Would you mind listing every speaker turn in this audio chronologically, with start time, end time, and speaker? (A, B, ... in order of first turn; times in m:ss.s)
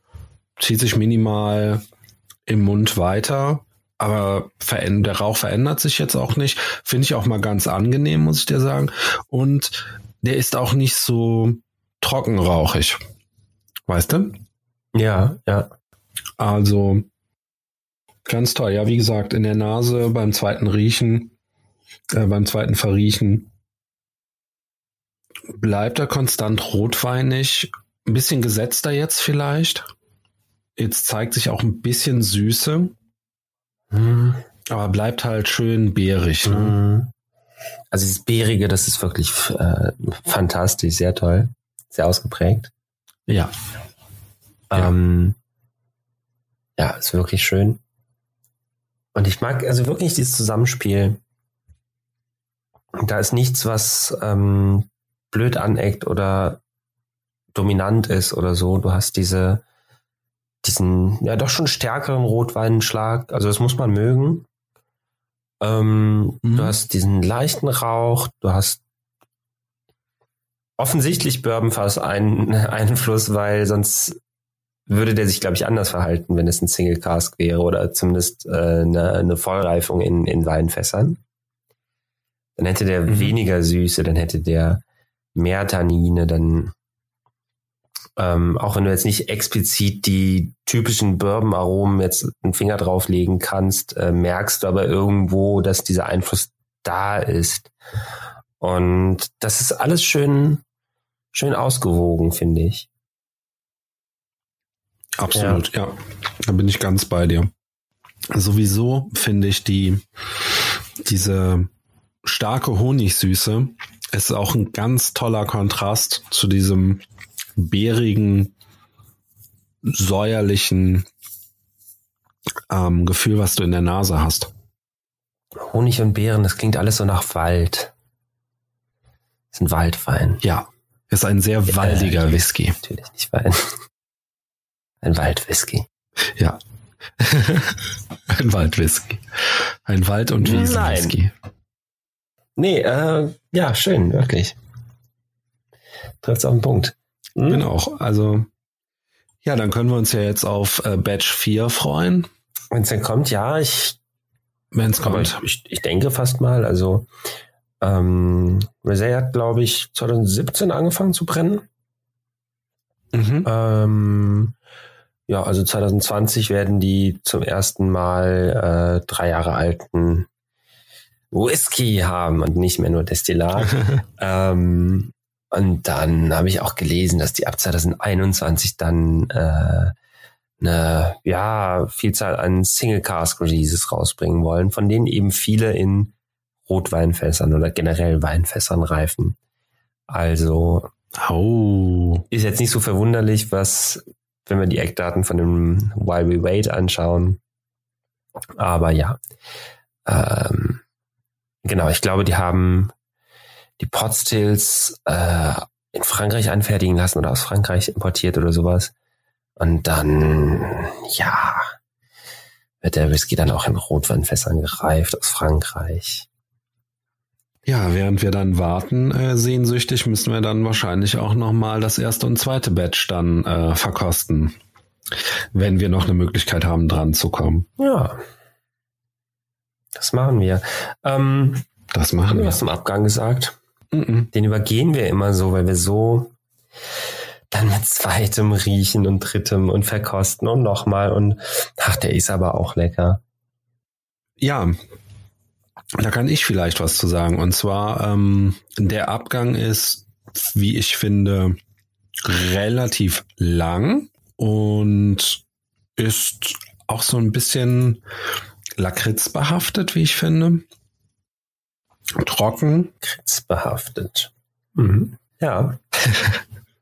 0:00.6-0:01.8 A
0:02.5-0:13.0 A
0:13.9-0:14.4 A
0:14.9-0:15.7 B
0:16.4-0:17.1 A
0:18.3-0:21.3 A
0:22.1-0:23.5 A
0:25.5-0:29.9 A
0:30.8-0:32.9 A
0:33.9-0:34.4 B
0:34.7-0:36.8 A
0:36.4-0:37.1 B
0:37.9-0:42.7 B
0:43.3-0:43.5 A
0:44.7-0:45.4 B
0:46.8-0:47.8 B
0:49.2-0:51.2 B
0:53.0-0:56.6 B
0:57.5-0:59.6 B
1:00.6-1:04.5 B
1:05.6-1:08.8 B
1:06.4-1:06.7 A
1:10.8-1:14.2 B
1:14.9-1:21.2 B
1:22.6-1:24.8 B
1:23.1-1:23.4 A
1:25.4-1:26.7 B
1:28.2-1:37.7 B
1:38.6-1:40.6 B
1:41.3-1:42.9 B
1:45.2-1:47.5 A
1:45.4-1:45.6 B
1:48.3-1:50.0 A
1:51.0-1:51.7 A
1:52.2-1:57.0 A
1:57.6-1:58.5 A
1:59.8-2:01.1 A
2:02.7-2:04.5 A
2:05.7-2:07.9 B
2:09.5-2:10.4 B
2:10.4-2:12.8 A
2:11.7-2:13.7 B
2:15.0-2:15.9 B
2:17.2-2:21.3 A
2:20.4-2:21.2 B
2:22.6-2:24.6 B
2:26.2-2:27.7 B
2:27.5-2:28.5 A
2:29.4-2:32.3 A
2:32.7-2:34.0 B
2:34.7-2:35.4 A
2:35.0-2:37.1 B
2:37.8-2:41.6 B
2:43.1-2:43.5 A
2:43.4-2:44.6 B
2:45.3-2:50.3 B
2:51.3-2:59.9 B
3:00.6-3:06.1 B
3:06.7-3:09.4 B
3:10.1-3:10.9 B
3:11.2-3:12.2 A
3:12.3-3:17.4 B
3:18.6-3:19.2 B
3:20.1-3:20.8 B
3:21.6-3:22.9 B
3:23.8-3:28.9 B
3:29.6-3:31.8 B
3:32.8-3:36.3 B
3:37.7-3:44.6 A
3:45.5-3:47.7 A
3:47.8-3:48.2 B
3:50.0-3:51.7 B
3:51.9-3:52.6 A
3:52.3-3:53.6 B
3:53.9-3:54.3 A
3:54.3-3:56.3 B
3:57.5-4:03.2 B
4:04.4-4:04.8 A
4:06.0-4:11.6 A
4:12.2-4:15.4 A
4:16.0-4:18.0 A
4:18.8-4:20.6 A
4:22.2-4:22.9 A
4:23.0-4:25.8 B